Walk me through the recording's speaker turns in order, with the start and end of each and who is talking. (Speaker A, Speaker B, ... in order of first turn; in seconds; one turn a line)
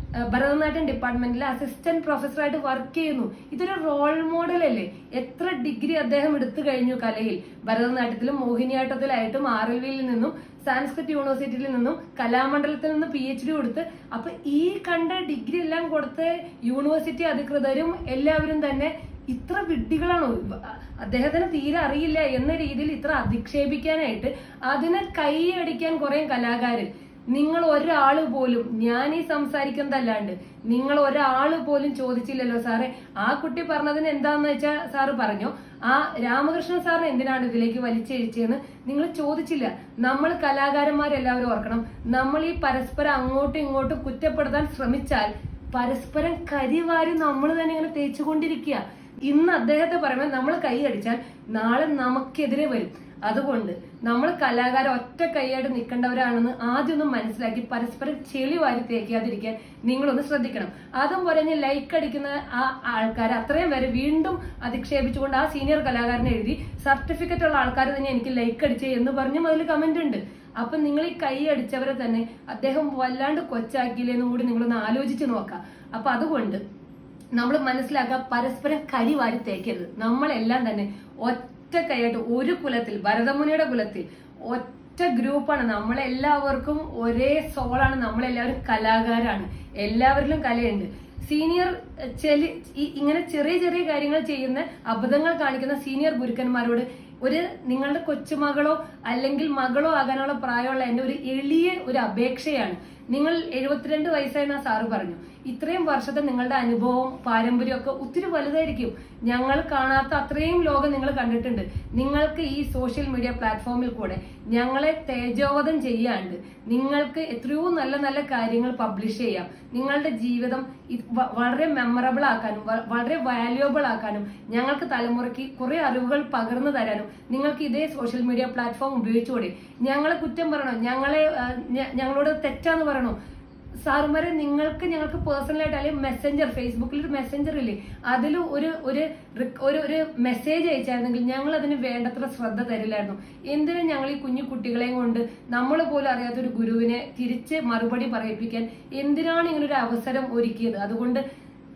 Speaker A: 0.3-76.6
Speaker A: 77.4-133.2
Speaker A: 133.8-151.2